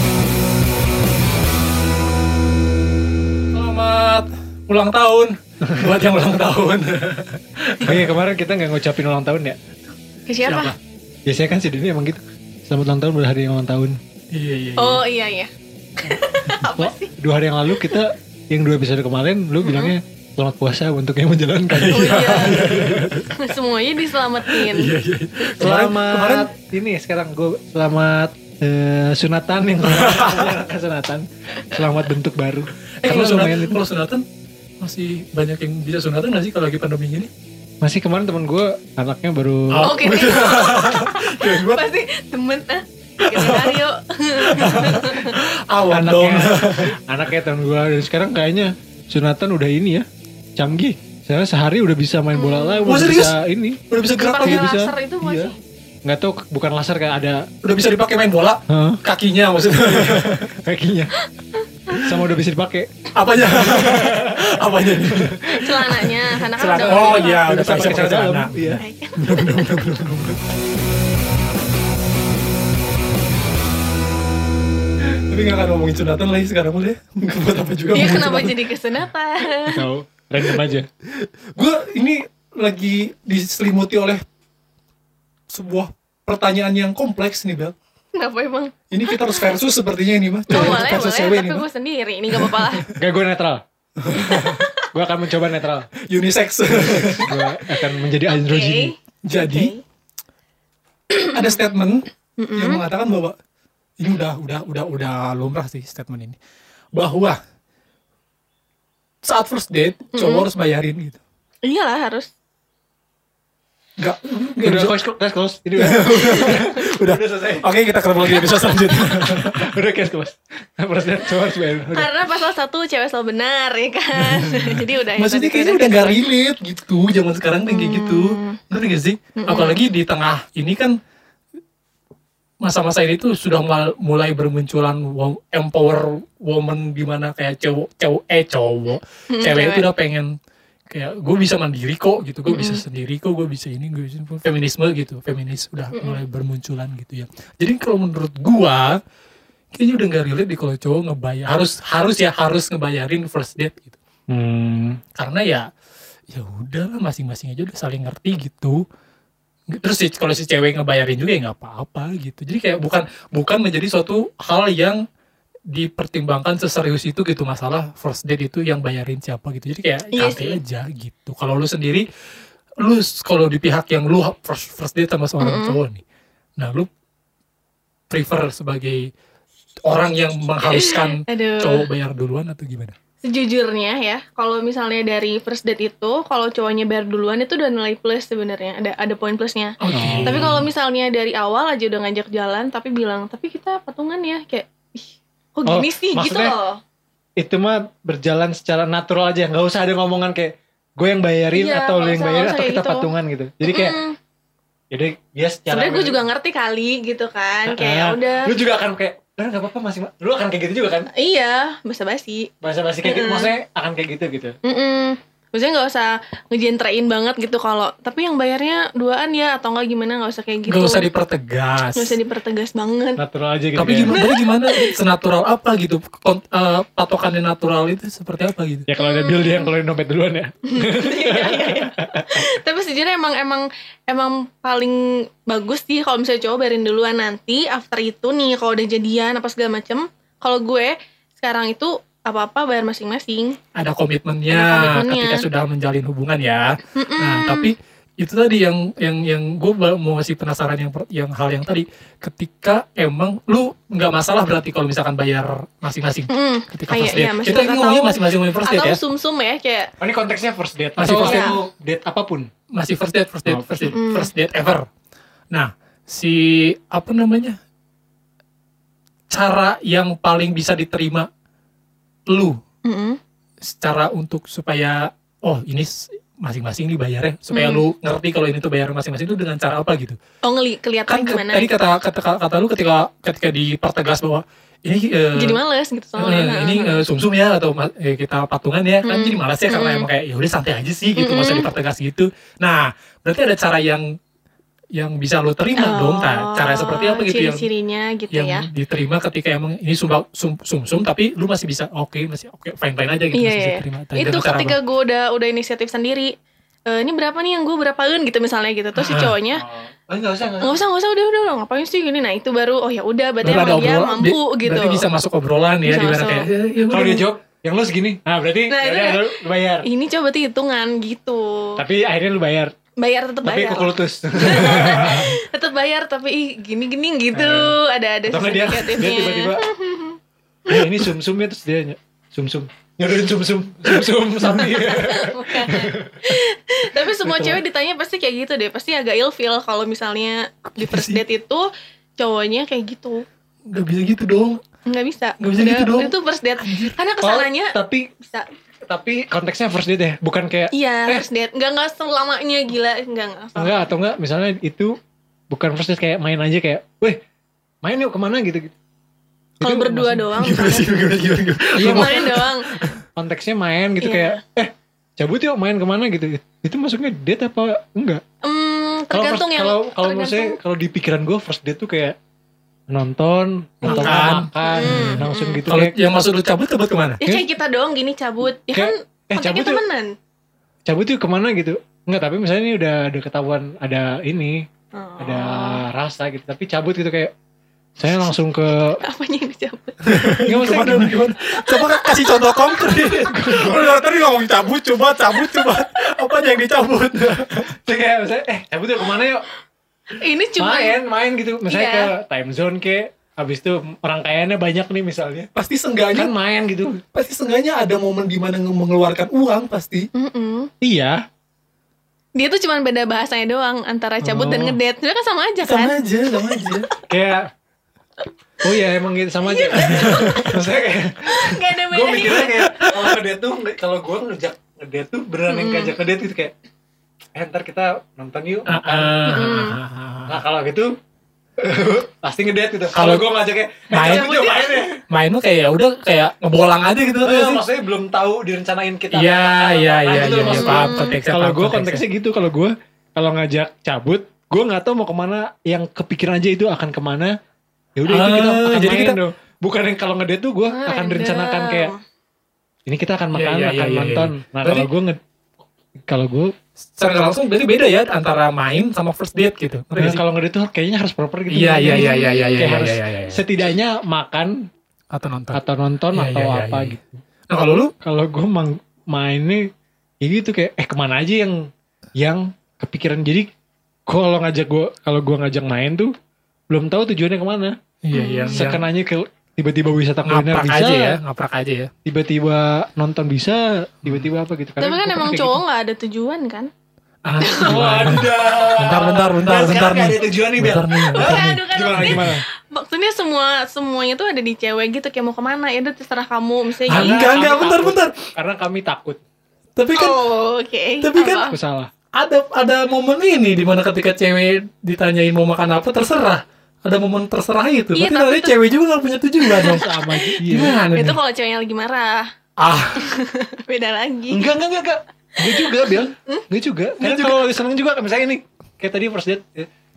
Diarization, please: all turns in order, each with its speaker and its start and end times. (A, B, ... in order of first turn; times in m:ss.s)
0:03.5-0:08.1 A
0:07.8-0:09.6 B
0:10.3-0:10.7 C
0:10.4-0:10.8 A
0:11.2-0:14.0 B
0:14.3-0:15.0 A
0:14.8-0:15.5 C
0:16.1-0:17.1 C
0:16.7-0:23.3 B
0:17.7-0:18.0 C
0:19.6-0:20.0 C
0:21.7-0:23.3 A
0:21.9-0:22.7 C
0:23.3-0:24.9 C
0:24.4-0:26.5 A
0:25.6-0:33.8 B
0:29.8-0:30.5 A
0:33.0-0:34.2 A
0:33.0-0:33.6 C
0:34.8-0:37.3 A
0:37.8-0:40.0 B
0:39.7-0:41.8 A
0:39.8-0:45.4 C
0:43.2-0:43.8 A
0:44.4-0:46.9 A
0:45.9-0:55.5 B
0:52.3-0:52.9 C
0:52.8-0:53.4 A
0:53.9-0:54.7 A
0:54.2-0:55.6 C
0:56.0-0:57.5 B
0:57.6-1:00.4 A
0:58.7-0:59.0 B
0:59.8-1:01.1 B
1:02.0-1:05.4 B
1:03.1-1:10.4 A
1:05.4-1:07.6 C
1:06.8-1:08.8 B
1:08.8-1:09.9 C
1:15.0-1:18.6 A
1:17.9-1:19.8 C
1:19.6-1:20.9 B
1:21.2-1:24.2 A
1:25.5-1:27.7 A
1:28.1-1:29.5 C
1:28.9-1:31.6 A
1:30.5-1:32.9 C
1:30.5-1:30.9 B
1:32.9-1:33.6 B
1:34.0-1:34.7 A
1:34.1-1:35.9 B
1:36.1-1:37.6 A
1:36.7-1:38.9 B
1:38.3-1:39.8 C
1:39.2-1:39.7 A
1:41.2-1:43.3 A
1:42.4-1:42.8 C
1:44.0-1:46.4 A
1:46.9-1:47.4 A
1:49.2-1:51.2 A
1:50.1-1:50.5 C
1:51.6-1:52.3 C
1:54.0-1:55.0 A
1:54.6-1:57.7 B
1:55.8-1:59.7 A
1:58.2-2:02.1 B
2:01.9-2:06.0 C
2:04.3-2:11.0 A
2:07.7-2:08.6 C
2:09.4-2:09.8 C
2:12.6-2:20.3 A
2:19.3-2:19.9 C
2:20.9-2:29.0 A
2:22.5-2:22.8 C
2:25.9-2:26.2 C
2:29.7-2:34.0 A
2:34.3-2:35.0 B
2:35.2-2:35.7 A
2:36.3-2:38.8 A
2:39.7-2:45.0 A
2:45.7-2:52.0 A
2:50.1-2:50.6 C
2:52.8-2:56.0 A
2:55.4-2:55.8 C
2:56.6-2:56.9 A
2:58.1-2:59.1 A
2:59.8-3:02.9 A
3:00.6-3:01.8 C
3:03.2-3:16.8 C
3:09.8-3:10.6 A
3:09.9-3:10.7 B
3:15.6-3:16.6 B
3:17.4-3:24.0 B
3:21.5-3:23.1 C
3:23.6-3:24.2 C
3:24.9-3:26.2 B
3:25.7-3:28.5 C
3:27.6-3:31.1 B
3:31.1-3:32.5 C
3:32.6-3:34.6 B
3:33.0-3:33.6 C
3:34.6-3:41.1 C
3:40.7-3:42.2 A
3:41.9-3:43.2 C
3:43.2-3:44.2 B
3:43.7-3:48.8 A
3:44.1-3:44.9 C
3:48.9-3:52.4 B
3:49.0-3:49.7 C
3:50.7-4:03.6 C
4:03.7-4:19.0 A
4:04.5-4:05.4 C
4:06.9-4:07.7 C
4:16.3-4:19.9 C
4:20.0-4:22.5 B
4:21.0-4:21.6 A
4:21.1-4:21.6 C
4:22.7-4:24.9 A
4:23.4-4:23.9 B
4:23.9-4:24.3 C
4:25.5-4:27.6 A
4:29.3-4:31.3 A
4:32.3-4:32.6 A
4:32.8-4:33.2 C
4:33.6-4:40.2 A
4:37.5-4:37.8 C
4:40.4-4:41.7 C
4:41.1-4:45.6 A
4:45.3-4:47.0 C
4:46.2-4:54.2 A
4:49.0-4:50.1 C
4:51.2-4:51.7 C
4:54.9-4:57.7 A
4:55.8-4:58.6 C
4:58.3-5:04.8 A
5:03.3-5:06.3 C
5:06.9-5:09.6 C
5:09.0-5:09.3 A
5:09.5-5:10.8 B
5:10.6-5:15.0 C
5:13.4-5:17.2 A
5:15.8-5:16.5 C
5:16.9-5:19.9 B
5:18.7-5:21.8 C
5:21.8-5:22.7 B
5:23.0-5:30.2 C
5:23.4-5:25.3 B
5:27.3-5:29.7 B
5:30.7-5:36.4 B
5:34.5-5:43.2 C
5:37.0-5:37.6 B
5:40.8-5:41.2 A
5:43.7-5:44.6 A
5:44.8-5:48.5 C
5:45.4-5:47.0 A
5:47.2-5:48.1 B
5:48.8-5:51.2 B
5:50.7-5:53.8 C
5:53.6-5:55.0 B
5:55.5-5:57.2 B
5:57.8-5:58.7 B
5:59.6-6:00.3 B
5:59.6-6:00.9 C
6:00.3-6:03.0 A
6:01.7-6:02.3 B
6:01.8-6:02.7 C
6:03.2-6:08.2 B
6:04.0-6:04.4 C
6:08.4-6:10.6 C
6:09.1-6:12.2 B
6:12.9-6:15.9 B
6:13.8-6:15.6 C
6:13.8-6:17.2 A
6:17.2-6:17.4 B
6:17.2-6:20.1 C
6:18.7-6:19.8 B
6:20.8-6:24.7 B
6:24.9-6:25.8 C
6:25.2-6:27.3 B
6:28.0-6:29.0 B
6:29.0-6:30.5 C
6:30.0-6:37.8 A
6:30.4-6:31.2 B
6:31.4-6:32.1 C
6:33.0-6:34.1 B
6:37.7-6:39.4 B
6:40.2-6:41.0 C
6:40.6-6:45.5 B
6:41.7-6:42.1 C
6:45.6-6:46.3 A
6:46.1-6:47.0 B
6:47.0-6:50.1 A
6:50.1-6:50.7 C
6:50.8-6:51.2 B
6:52.4-6:56.0 C
6:54.3-6:54.8 B
6:55.6-6:56.9 A
6:57.1-6:57.5 B
6:58.6-7:06.5 B
6:59.4-7:00.5 C
6:59.8-7:00.6 A
7:01.2-7:02.6 C
7:05.5-7:05.9 C
7:07.3-7:09.6 B
7:08.7-7:10.4 A
7:09.2-7:09.8 C
7:10.3-7:10.9 B
7:11.6-7:15.0 B
7:12.9-7:13.3 A
7:13.9-7:17.6 A
7:17.2-7:27.3 B
7:19.1-7:22.0 A
7:20.5-7:21.2 C
7:28.0-7:31.9 B
7:28.1-7:29.2 A
7:30.7-7:32.0 C
7:32.8-7:35.2 B
7:33.3-7:34.9 A
7:36.1-7:36.5 B
7:37.0-7:40.2 A
7:40.0-7:44.7 B
7:41.5-7:43.4 A
7:41.8-7:42.6 C
7:45.1-7:45.6 A
7:45.5-7:47.2 B
7:46.1-7:47.0 A
7:47.5-7:47.9 A
7:48.0-7:49.7 B
7:50.2-7:53.5 B
7:54.1-7:56.1 B
7:56.7-7:57.8 B
7:58.0-7:58.8 A
7:58.1-7:58.6 C
7:58.5-8:01.2 B
8:00.2-8:01.9 A
8:02.0-8:05.6 B
8:04.8-8:06.7 C
8:07.2-8:12.3 A
8:07.4-8:07.9 C
8:07.5-8:12.4 B
8:11.1-8:17.4 C
8:16.9-8:19.2 B
8:16.9-8:18.2 A
8:19.8-8:20.2 A
8:19.9-8:21.6 C
8:21.0-8:21.5 A
8:21.5-8:21.9 B
8:22.1-8:29.8 A
8:27.9-8:28.6 C
8:29.4-8:32.3 C
8:29.6-8:30.8 B
8:30.4-8:31.2 A
8:32.6-8:33.0 A
8:33.0-8:34.5 C
8:34.3-8:39.7 B
8:35.4-8:36.4 C
8:37.0-8:37.5 A